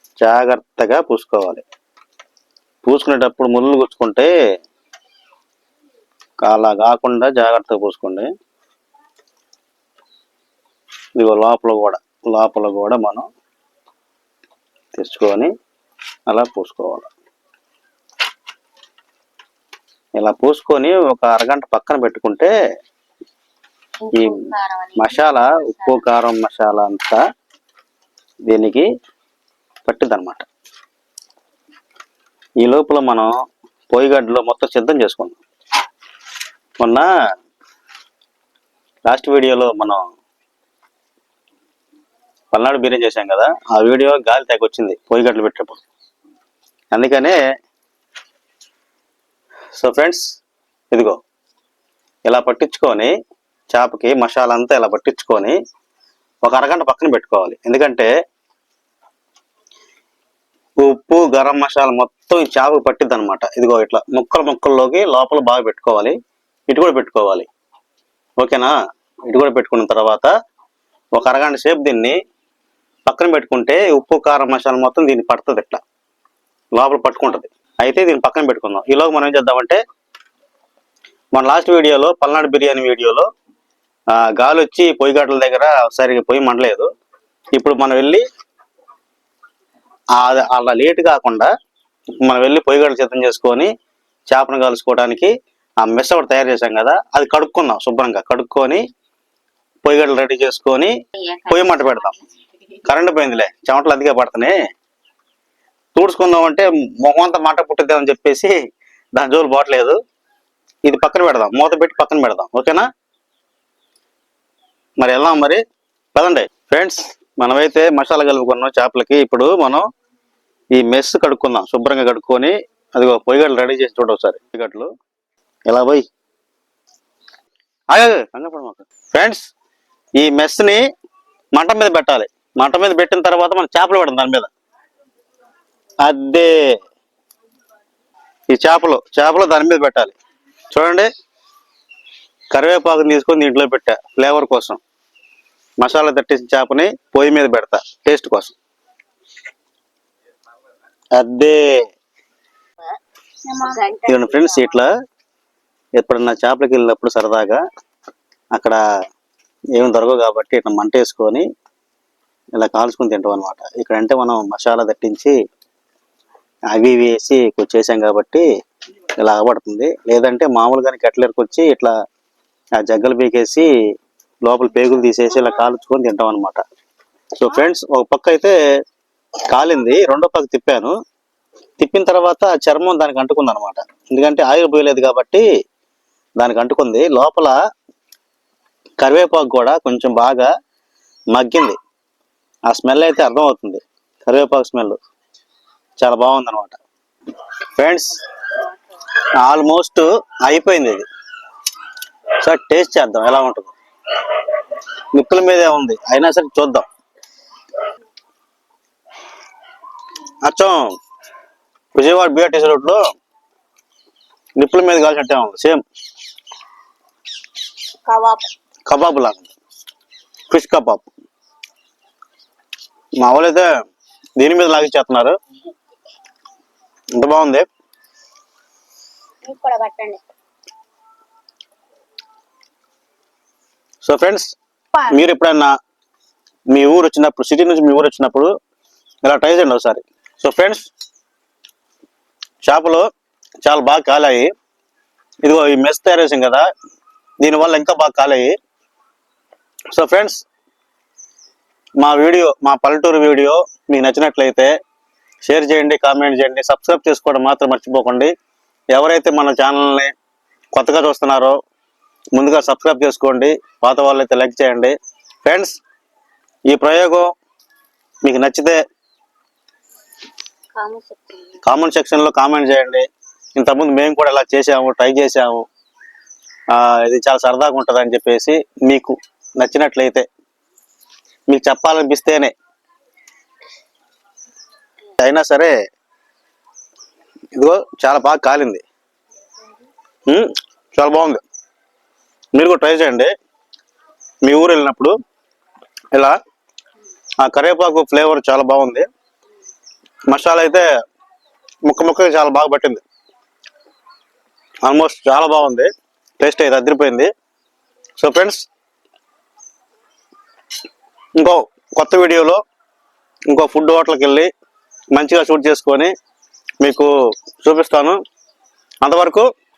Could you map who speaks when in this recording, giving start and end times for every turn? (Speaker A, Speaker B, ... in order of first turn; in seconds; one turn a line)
Speaker A: 0.2-1.6
Speaker A: 2.8-4.3
Speaker A: 6.4-8.3
Speaker A: 11.2-13.2
Speaker A: 14.9-15.5
Speaker A: 16.3-17.1
Speaker A: 20.2-22.5
Speaker B: 24.0-26.0
Speaker A: 24.1-24.4
Speaker A: 25.0-27.2
Speaker A: 28.5-28.9
Speaker A: 29.8-30.4
Speaker A: 32.6-33.3
Speaker A: 33.9-35.4
Speaker A: 36.8-37.1
Speaker A: 39.1-40.0
Speaker A: 42.5-45.8
Speaker A: 46.9-47.4
Speaker A: 49.8-50.2
Speaker A: 50.9-51.2
Speaker A: 52.2-53.1
Speaker A: 53.7-55.6
Speaker A: 56.4-58.1
Speaker A: 60.8-66.2
Speaker A: 66.7-67.5
Speaker A: 68.4-68.7
Speaker A: 69.3-70.3
Speaker A: 71.1-72.2
Speaker A: 73.1-75.8
Speaker A: 76.8-79.8
Speaker A: 81.3-83.3
Speaker A: 84.2-86.9
Speaker A: 87.5-88.2
Speaker A: 90.2-91.5
Speaker A: 92.2-93.7
Speaker A: 94.3-98.8
Speaker A: 99.8-100.9
Speaker B: 101.1-102.2
Speaker A: 101.5-102.1
Speaker A: 102.8-104.5
Speaker A: 105.9-108.5
Speaker A: 109.1-110.0
Speaker A: 110.8-112.8
Speaker A: 115.0-115.6
Speaker A: 116.1-119.9
Speaker A: 120.7-124.9
Speaker A: 125.7-126.0
Speaker A: 127.9-129.5
Speaker A: 130.2-130.8
Speaker A: 131.5-134.5
Speaker A: 136.0-136.8
Speaker A: 138.5-140.1
Speaker A: 140.7-141.1
Speaker A: 142.5-144.8
Speaker A: 145.8-148.6
Speaker A: 151.2-151.7
Speaker B: 153.5-154.7
Speaker A: 154.1-154.9
Speaker A: 156.0-157.6
Speaker A: 159.8-161.4
Speaker A: 162.6-165.3
Speaker A: 166.7-168.4
Speaker A: 169.2-171.9
Speaker A: 172.8-173.7
Speaker A: 174.4-176.6
Speaker A: 177.4-178.6
Speaker A: 179.5-180.9
Speaker A: 181.8-185.4
Speaker A: 186.4-187.6
Speaker A: 189.0-190.5
Speaker A: 191.3-191.8
Speaker A: 192.7-195.0
Speaker A: 196.0-196.8
Speaker A: 197.8-198.2
Speaker A: 199.3-201.1
Speaker A: 202.4-203.7
Speaker A: 205.1-206.8
Speaker A: 210.4-210.8
Speaker A: 211.9-213.0
Speaker A: 214.6-215.8
Speaker B: 218.1-218.4
Speaker A: 218.9-219.5
Speaker A: 220.5-221.1
Speaker A: 223.2-223.7
Speaker A: 224.4-225.3
Speaker A: 227.2-227.7
Speaker B: 229.4-230.2
Speaker A: 234.0-235.7
Speaker A: 236.7-238.5
Speaker A: 239.2-240.9
Speaker A: 242.6-243.1
Speaker A: 243.6-244.5
Speaker A: 245.4-246.7
Speaker A: 247.4-248.6
Speaker A: 249.9-250.4
Speaker A: 252.0-254.7
Speaker A: 255.4-258.3
Speaker A: 258.9-260.1
Speaker A: 260.7-261.6
Speaker A: 262.3-265.8
Speaker A: 266.7-267.3
Speaker A: 268.2-268.8
Speaker B: 270.8-271.6
Speaker A: 271.6-273.1
Speaker A: 273.6-275.7
Speaker A: 276.7-280.2
Speaker A: 281.5-282.5
Speaker A: 285.2-285.7
Speaker A: 287.6-288.8
Speaker A: 290.3-291.4
Speaker A: 292.5-293.3
Speaker A: 294.4-295.1
Speaker A: 297.4-299.1
Speaker A: 300.3-300.9
Speaker A: 301.9-303.0
Speaker A: 304.8-307.3
Speaker A: 308.2-308.7
Speaker A: 311.4-312.6
Speaker A: 313.5-314.5
Speaker A: 315.1-316.1
Speaker A: 316.8-318.2
Speaker A: 319.0-319.4